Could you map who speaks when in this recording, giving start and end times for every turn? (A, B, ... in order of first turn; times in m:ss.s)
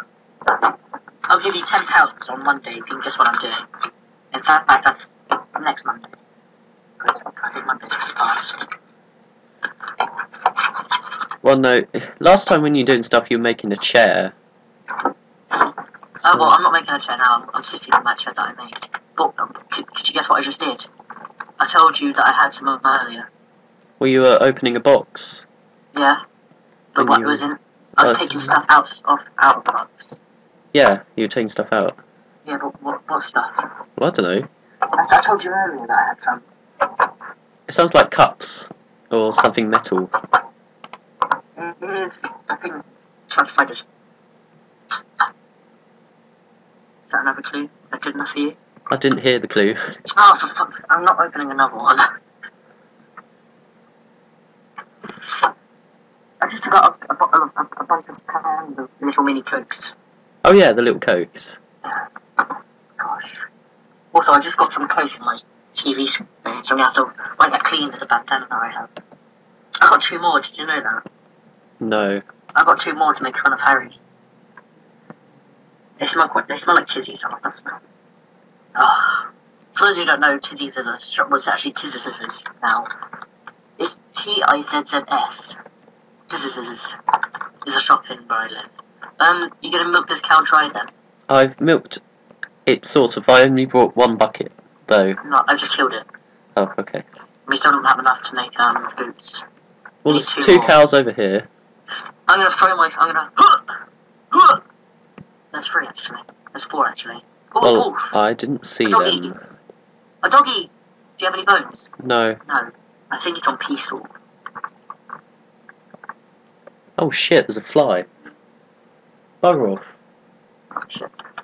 0:01.3-0:03.6 A
0:04.3-0:05.0 A
0:05.6-0:06.2 A
0:07.0-0:08.7 A
0:11.4-0:14.3 B
0:16.2-0:16.6 B
0:16.2-0:20.9 A
0:21.6-0:23.3 A
0:24.0-0:25.4 B
0:25.9-0:26.2 A
0:27.0-0:30.2 A
0:27.0-0:27.4 B
0:28.0-0:28.6 B
0:30.7-0:32.0 B
0:32.5-0:33.7 A
0:34.0-0:34.5 B
0:34.9-0:36.4 A
0:37.7-0:40.1 B
0:41.6-0:43.9 A
0:47.1-0:48.6 A
0:48.9-0:50.0 B
0:50.0-0:52.1 A
0:56.4-0:59.9 A
1:00.4-1:01.6 B
1:03.0-1:03.5 A
1:04.1-1:08.9 A
1:09.8-1:11.0 A
1:11.8-1:12.2 B
1:12.6-1:14.0 A
1:16.0-1:17.8 A
1:18.8-1:22.9 A
1:23.8-1:25.6 A
1:26.3-1:27.0 A
1:27.6-1:30.9 A
1:31.3-1:32.0 B
1:32.7-1:35.2 B
1:35.2-1:36.1 A
1:36.6-1:37.0 B
1:37.5-1:39.4 A
1:40.0-1:41.5 B
1:40.1-1:40.8 A
1:42.3-1:43.8 A
1:44.3-1:44.6 A
1:45.5-1:48.1 A
1:47.6-1:49.4 B
1:48.9-1:49.3 A
1:50.2-1:51.9 A
1:52.0-1:52.4 B
1:52.5-1:54.1 A
1:57.0-1:58.1 B
1:59.4-1:59.9 B
2:00.8-2:01.1 A